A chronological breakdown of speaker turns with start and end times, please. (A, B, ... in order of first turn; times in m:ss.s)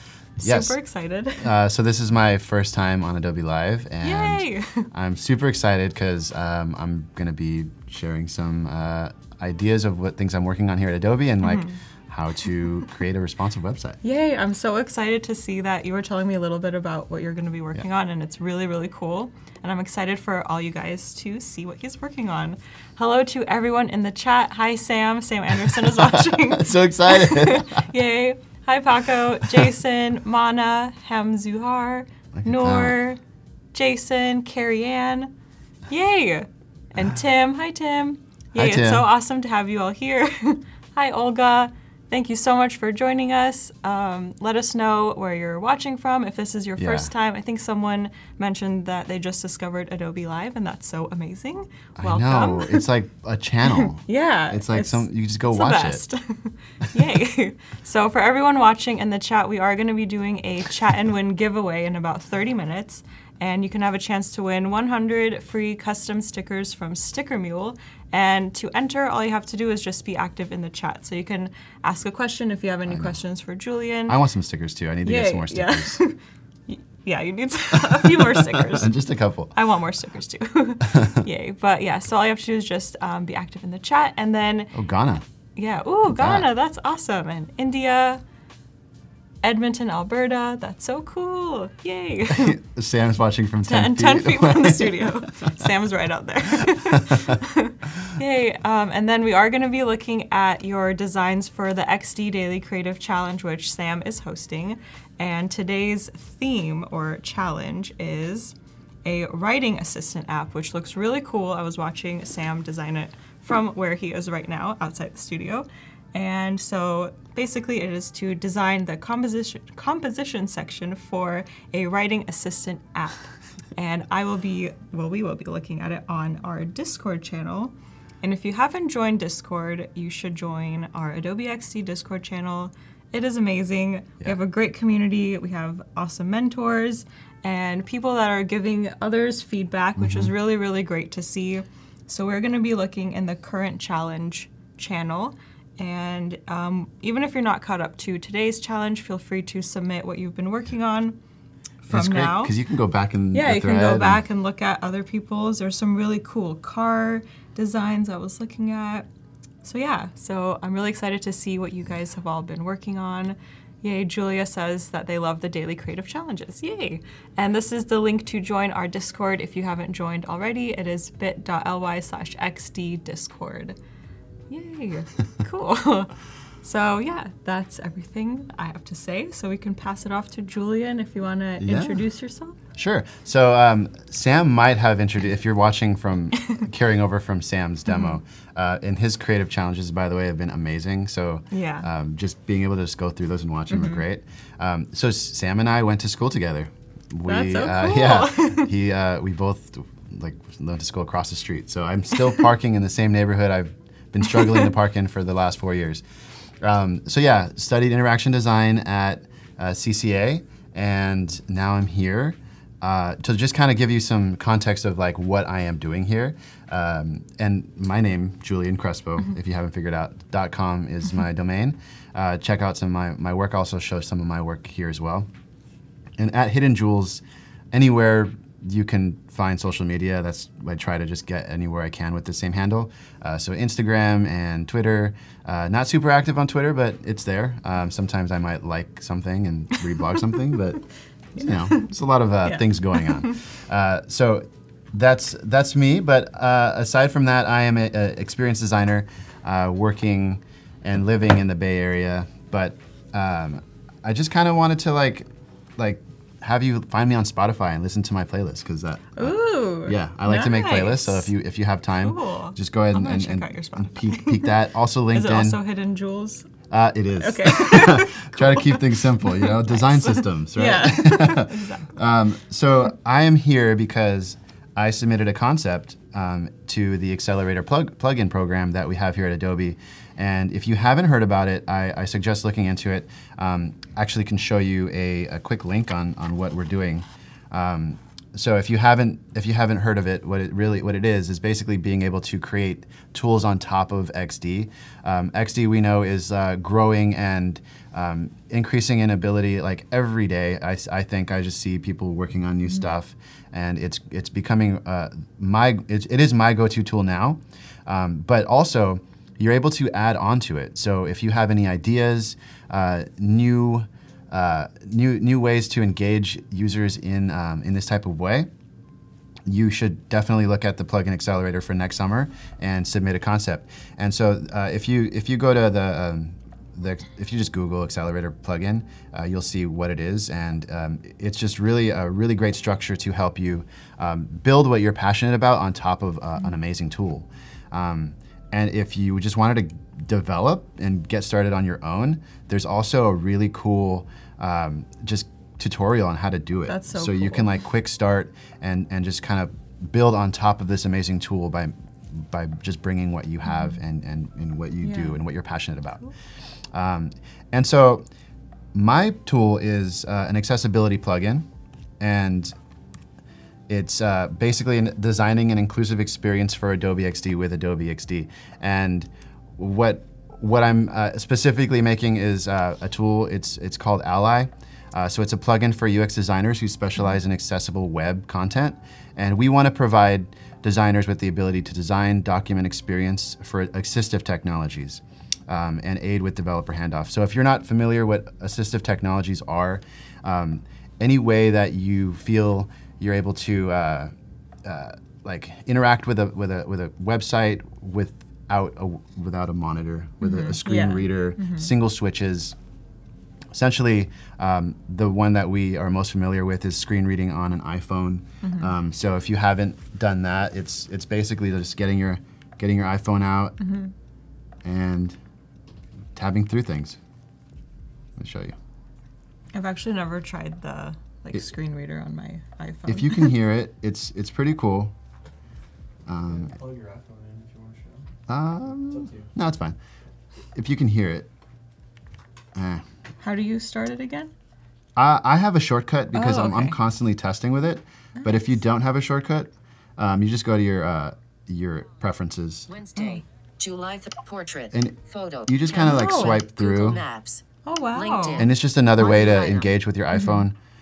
0:00.4-0:01.5 A
0:00.4-0:00.8 B
0:01.4-0:14.0 B
0:04.0-0:04.9 A
0:11.4-0:11.8 A
0:14.0-0:33.2 A
0:25.7-0:27.8 B
0:32.3-0:33.0 B
0:33.7-0:35.3 A
0:35.9-0:52.8 A
0:38.5-0:39.0 B
0:46.8-0:47.1 B
0:52.0-0:56.0 B
0:53.7-1:14.2 A
1:12.9-1:13.2 B
1:14.1-1:16.0 B
1:15.0-1:18.9 A
1:17.7-1:19.5 B
1:19.5-1:24.7 A
1:20.8-1:21.2 B
1:24.7-1:25.2 B
1:25.6-1:28.2 A
1:26.1-1:26.5 B
1:29.4-1:32.6 A
1:32.3-1:35.5 B
1:33.6-2:31.2 A
1:36.9-1:37.4 B
2:20.0-2:20.3 B
2:31.8-2:32.5 A
2:31.9-2:34.2 B
2:33.3-2:39.1 A
2:39.6-2:53.8 A
2:54.5-3:02.6 A
3:01.6-3:02.0 B
3:02.8-3:26.0 B
3:07.9-3:08.2 A
3:11.5-3:11.9 A
3:13.7-3:14.0 A
3:17.3-3:18.7 A
3:26.6-3:45.3 B
3:46.2-4:00.8 B
4:01.3-4:25.6 B
4:01.4-4:01.9 A
4:02.4-4:03.4 A
4:19.2-4:21.3 A
4:22.0-4:24.6 A
4:25.1-4:26.5 A
4:26.7-5:18.5 B
4:27.2-4:32.0 A
5:19.4-5:56.1 B
5:46.7-5:47.5 A
5:53.5-5:53.8 A
5:54.8-5:55.2 A
5:56.7-5:58.1 B
5:58.7-6:01.5 B
6:02.0-6:02.5 B
6:03.7-6:34.1 B
6:34.6-6:42.5 B
6:40.2-6:41.7 A
6:43.5-6:53.6 B
6:48.4-6:48.7 A
6:53.6-6:53.9 A
6:54.6-6:55.2 B
6:56.1-6:57.0 B
6:58.2-6:58.5 B
6:59.5-7:03.4 A
7:02.9-7:04.9 B
7:06.0-7:06.6 B
7:06.2-7:08.1 C
7:08.3-7:09.8 B
7:08.8-7:09.3 C
7:10.5-7:11.3 B
7:12.5-7:12.8 B
7:13.2-7:14.3 A
7:15.0-7:22.7 B
7:16.1-7:16.8 A
7:18.2-7:18.5 A
7:22.7-7:27.4 D
7:23.0-7:23.2 A
7:24.7-7:27.0 B
7:25.7-7:26.4 A
7:27.6-7:28.5 A
7:27.9-7:29.7 D
7:28.4-7:30.6 B
7:30.1-7:30.4 A